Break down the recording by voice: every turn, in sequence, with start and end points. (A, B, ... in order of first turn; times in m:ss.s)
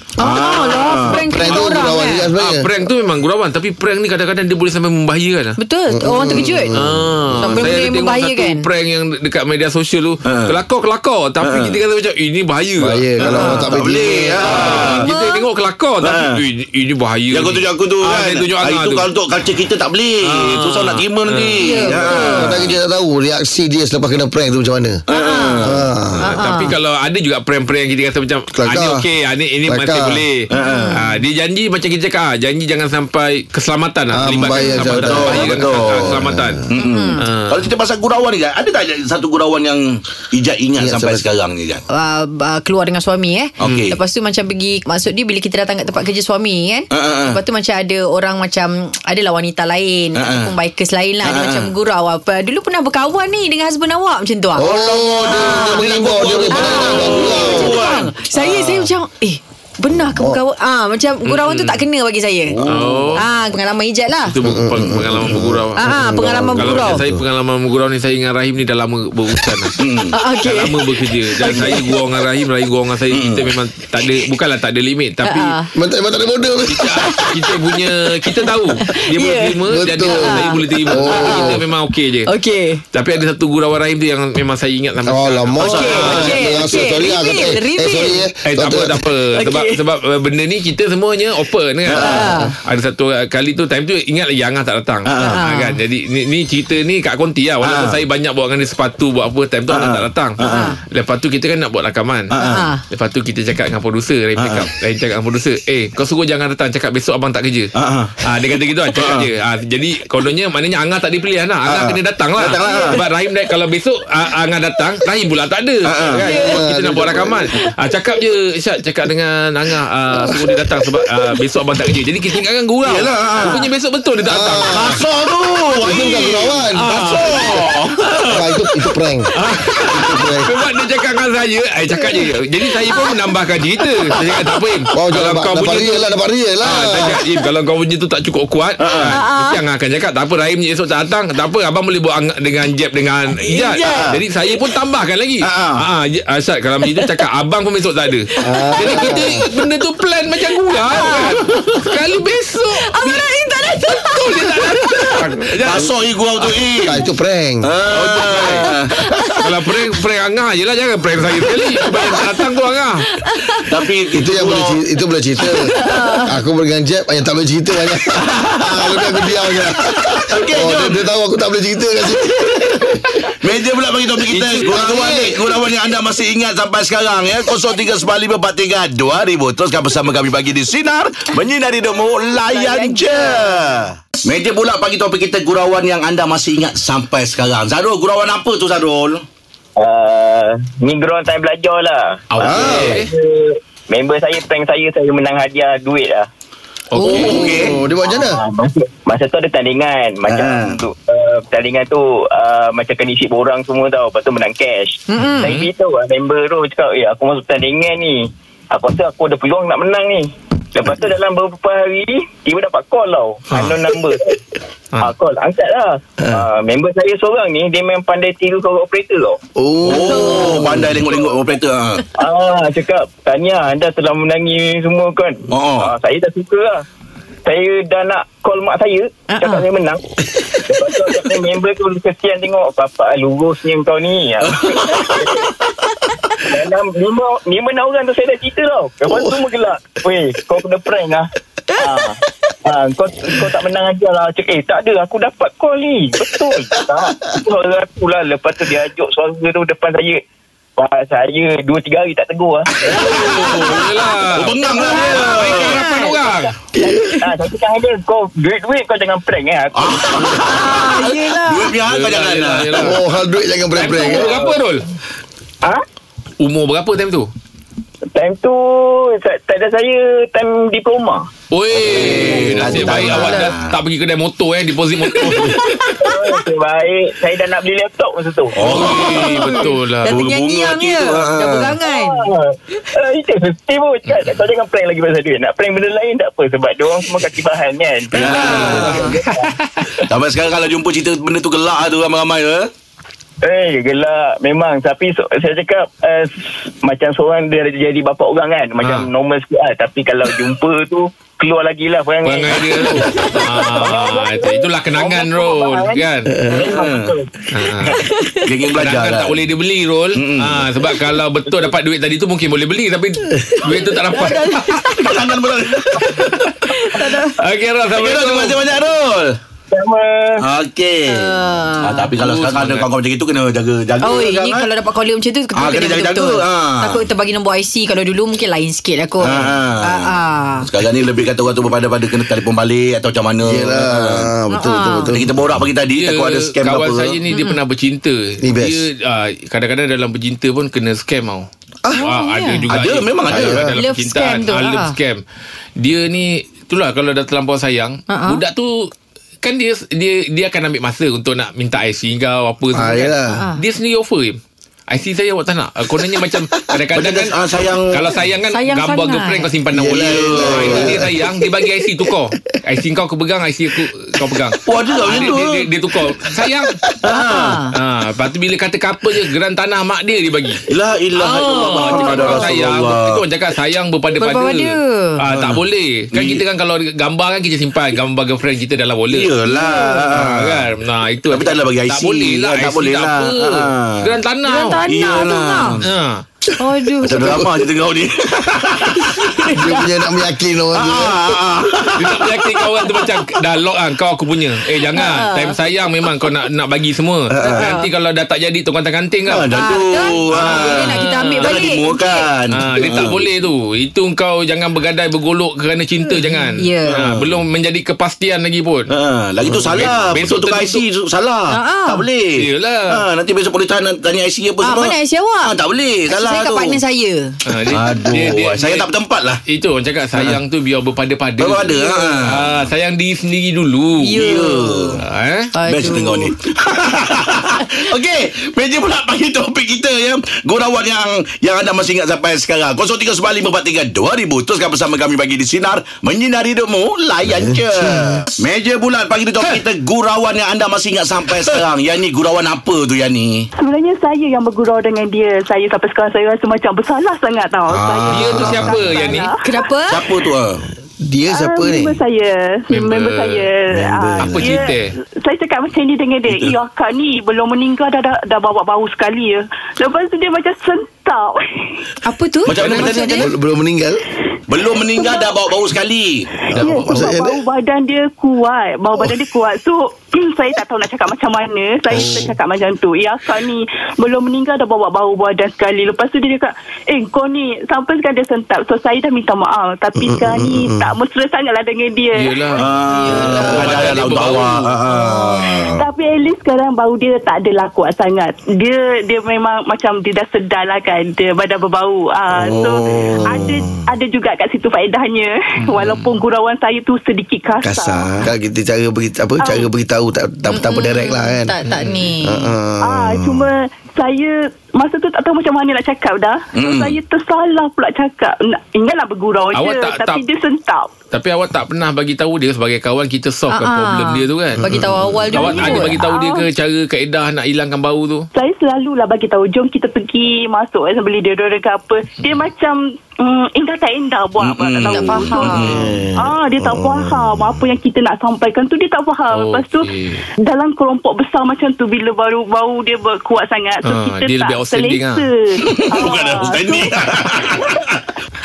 0:00.2-0:01.3 A
0:00.2-0:02.3 B
0:01.0-0:02.7 C
0:01.4-0:01.8 D
0:02.3-0:05.6 D
0:05.6-0:06.8 B
0:05.9-0:07.8 C
0:06.7-0:13.6 D
0:07.4-0:08.7 B
0:10.2-0:10.6 A
0:11.4-0:11.8 A
0:12.8-0:14.7 C
0:13.2-0:15.1 A
0:13.3-0:13.7 B
0:14.4-0:19.1 D
0:15.0-0:15.5 B
0:16.0-0:16.4 A
0:17.3-0:22.8 A
0:20.3-0:22.4 D
0:21.6-0:22.6 B
0:22.2-0:25.0 C
0:25.1-0:25.9 A
0:25.1-0:26.8 B
0:25.6-0:26.3 C
0:26.2-0:36.6 D
0:28.6-0:29.1 C
0:29.6-0:30.2 C
0:30.5-0:31.0 A
0:30.6-0:31.0 B
0:34.1-0:36.6 C
0:34.9-0:36.1 A
0:36.7-0:41.8 A
0:36.8-0:37.2 B
0:37.2-0:37.7 D
0:40.8-0:41.2 C
0:41.9-0:54.7 B
0:43.6-0:44.0 A
0:43.6-0:43.9 D
0:46.9-0:47.4 A
0:50.2-0:50.6 A
0:51.2-0:51.7 A
0:54.6-0:57.8 C
0:54.6-0:58.8 A
0:55.3-0:55.9 B
0:56.5-1:02.6 B
0:59.9-1:00.4 C
1:01.2-1:01.8 D
1:02.5-1:03.2 A
1:02.7-1:03.2 D
1:03.2-1:04.4 B
1:04.3-1:05.9 D
1:04.4-1:07.2 C
1:05.8-1:07.0 B
1:06.5-1:09.7 D
1:09.8-1:10.2 A
1:10.1-1:11.8 B
1:10.4-1:15.6 D
1:11.4-1:11.8 A
1:13.1-1:13.5 A
1:15.2-1:15.7 B
1:15.7-1:17.1 C
1:16.7-1:22.3 D
1:18.8-1:21.6 B
1:19.7-1:21.6 C
1:22.3-1:22.8 B
1:22.9-1:26.5 D
1:25.0-1:29.1 C
1:25.6-1:26.8 A
1:25.6-1:28.2 B
1:28.4-1:42.3 D
1:29.3-1:29.8 B
1:31.9-1:32.4 A
1:32.0-1:32.5 B
1:35.1-1:35.4 A
1:35.2-1:35.8 B
1:37.6-1:38.0 A
1:39.7-1:40.8 A
1:40.4-1:40.8 B
1:42.3-1:42.7 A
1:42.4-1:42.8 B
1:42.9-2:04.8 D
1:44.4-1:44.7 A
1:47.8-1:48.3 A
1:48.9-1:49.3 A
1:51.6-1:53.1 A
1:55.9-1:56.4 A
1:56.3-1:56.7 B
1:56.3-1:57.5 C
2:02.8-2:03.7 A
2:04.2-2:05.0 C
2:04.7-2:08.0 A
2:05.8-2:07.0 C
2:06.8-2:08.5 D
2:08.3-2:09.3 C
2:09.3-2:16.1 D
2:09.9-2:10.3 A
2:09.9-2:10.5 C
2:12.0-2:13.2 B
2:14.9-2:17.2 C
2:16.6-2:33.2 D
2:18.8-2:19.2 A
2:19.0-2:19.6 B
2:23.4-2:24.2 B
2:23.6-2:24.2 A
2:25.4-2:25.8 A
2:28.3-2:29.3 B
2:28.4-2:29.4 C
2:30.7-2:31.6 B
2:32.8-2:35.2 B
2:33.9-2:35.9 D
2:35.6-2:37.0 A
2:36.8-2:37.7 C
2:37.6-2:39.0 A
2:37.9-2:38.7 D
2:39.4-2:43.1 D
2:43.2-2:43.6 B
2:43.7-2:44.8 A
2:44.1-2:53.1 C
2:45.4-2:46.3 B
2:48.2-2:49.0 A
2:50.1-2:51.0 A
2:53.4-3:09.2 A
2:54.6-2:55.4 C
3:02.5-3:03.7 B
3:09.8-3:16.3 E
3:12.3-3:13.1 D
3:12.4-3:12.8 A
3:12.6-3:13.0 C
3:16.9-3:17.6 D
3:17.0-3:17.8 B
3:17.0-3:17.8 A
3:17.0-3:18.4 C
3:18.0-3:34.4 E
3:20.3-3:20.8 A
3:25.1-3:25.5 B
3:25.2-3:25.7 D
3:33.5-3:33.8 D
3:35.0-3:39.4 E
3:39.6-3:41.0 C
3:39.8-3:42.1 A
3:40.0-3:40.7 B
3:42.2-3:46.8 E
3:45.5-3:45.9 A
3:47.4-3:50.0 E
3:49.3-3:49.7 B
3:50.7-3:54.5 E
3:54.4-3:55.3 A
3:55.1-3:55.4 E
3:56.5-4:02.2 E
4:02.7-4:10.2 E
4:10.8-4:12.9 E
4:12.8-4:15.8 A
4:12.9-4:16.5 D
4:14.7-4:16.1 B
4:15.4-4:20.4 E
4:19.7-4:23.0 A
4:20.3-4:21.7 B
4:21.7-4:23.0 D
4:22.8-4:24.4 C
4:23.8-4:24.8 D
4:24.2-4:24.5 E
4:26.4-4:27.3 D
4:28.1-4:31.3 E
4:31.5-4:35.6 D
4:31.7-4:33.7 A
4:32.0-4:32.3 E
4:32.0-4:33.5 B
4:35.2-4:35.9 B
4:36.0-4:39.7 E
4:38.5-4:39.2 A
4:38.6-4:40.2 D
4:38.8-4:42.3 B
4:40.0-4:41.8 A
4:41.8-4:49.6 E
4:48.1-4:49.0 A
4:48.2-4:49.9 D
4:48.4-4:49.1 B
4:50.1-4:52.7 A
4:53.4-5:07.9 E
4:58.8-4:59.1 D
5:02.2-5:06.4 D
5:06.6-5:07.2 A
5:07.5-5:08.0 D
5:08.1-5:08.4 B
5:08.4-5:09.4 A
5:08.7-5:14.8 D
5:10.2-5:10.7 A
5:14.1-5:15.1 B
5:14.8-5:16.5 A
5:16.0-5:16.5 D
5:16.7-5:17.4 B
5:17.4-5:18.7 D
5:17.9-5:19.4 A
5:19.7-5:20.4 E
5:20.4-5:24.7 A
5:21.1-5:22.1 B
5:22.2-5:22.9 D
5:24.0-5:30.7 B
5:25.5-5:27.1 A
5:29.2-5:34.3 A
5:33.4-5:35.4 C
5:34.5-5:35.1 B
5:35.1-5:37.2 A
5:35.9-5:41.5 D
5:37.3-5:37.6 B
5:38.4-5:38.9 C
5:41.9-5:42.7 B
5:42.0-5:45.2 D
5:42.7-5:43.8 A
5:43.3-5:43.7 C
5:43.8-5:45.0 B
5:45.8-5:48.9 D
5:48.1-5:48.4 B
5:49.4-5:57.4 D
5:52.7-5:53.5 C
5:53.4-5:53.6 B
5:56.9-5:58.1 A
5:57.9-6:06.8 D
5:58.5-5:59.5 B
5:59.7-6:01.7 C
5:59.9-6:01.1 A
6:04.6-6:05.7 A
6:07.0-6:07.6 A
6:07.1-6:07.7 B
6:07.7-6:10.6 D
6:10.7-6:13.2 A
6:11.2-6:12.5 B
6:11.2-6:19.3 D
6:14.2-6:15.2 B
6:15.3-6:16.5 A
6:19.1-6:20.7 A
6:19.5-6:20.0 B
6:20.1-6:24.8 D
6:21.3-6:24.2 A
6:24.4-6:25.8 B
6:24.8-6:25.9 A
6:25.9-6:26.2 D
6:26.6-6:27.5 B
6:27.0-6:29.2 A
6:28.9-6:29.9 B
6:29.6-6:31.2 C
6:30.7-6:32.4 A
6:32.0-6:39.5 D
6:34.9-6:35.6 B
6:37.3-6:37.7 A
6:37.4-6:37.9 B
6:39.3-6:43.2 A
6:39.5-6:42.2 B
6:40.3-6:41.6 D
6:42.5-6:48.9 D
6:46.3-6:47.0 B
6:46.8-6:47.3 A
6:48.9-6:56.8 A
6:49.4-6:50.8 D
6:51.5-6:52.0 B
6:52.4-6:53.0 D
6:54.6-6:55.5 B
6:56.1-6:57.4 B
6:57.4-6:58.9 D
6:57.7-6:59.4 A
6:59.5-7:04.2 D
7:01.4-7:02.5 A
7:04.0-7:04.9 B
7:04.2-7:05.0 A
7:05.0-7:05.5 D
7:05.6-7:06.3 B
7:05.6-7:23.5 A
7:17.3-7:18.2 C
7:23.6-7:29.7 F
7:27.7-7:28.6 A
7:28.1-7:29.3 D
7:28.2-7:28.8 C
7:29.4-7:30.1 B
7:29.9-7:30.7 A
7:31.0-7:32.0 C
7:31.3-7:41.8 F
7:32.7-7:33.5 D
7:33.7-7:34.6 C
7:34.2-7:34.9 D
7:36.3-7:36.6 A
7:42.0-7:43.3 B
7:42.5-7:43.3 A
7:42.6-7:43.0 D
7:43.1-7:44.0 C
7:44.5-7:46.5 A
7:45.0-7:45.3 F
7:46.5-7:47.4 C
7:46.6-7:47.0 D
7:46.6-8:02.6 F
7:51.9-7:52.3 D
8:00.0-8:00.9 C
8:02.2-8:04.7 D
8:02.6-8:05.9 A
8:02.9-8:04.1 B
8:04.9-8:05.7 B
8:05.8-8:18.1 F
8:12.4-8:13.8 C
8:12.5-8:12.8 A
8:15.7-8:16.1 A
8:17.6-8:18.3 A
8:18.2-8:21.6 C
8:19.4-8:19.7 F
8:20.5-8:22.5 B
8:21.6-8:22.1 D
8:22.2-8:23.4 C
8:22.8-8:30.9 F
8:26.5-8:27.0 A
8:29.5-8:30.2 D
8:31.1-8:34.7 D
8:33.5-8:36.2 B
8:34.6-8:35.9 A
8:35.3-8:38.3 D
8:36.1-8:36.5 F
8:38.3-8:49.9 F
8:44.4-8:46.0 A
8:44.9-8:45.8 B
8:45.5-8:47.6 C
8:49.3-8:50.2 D
8:50.5-8:56.9 F
8:53.8-8:55.2 D
8:55.6-8:58.0 A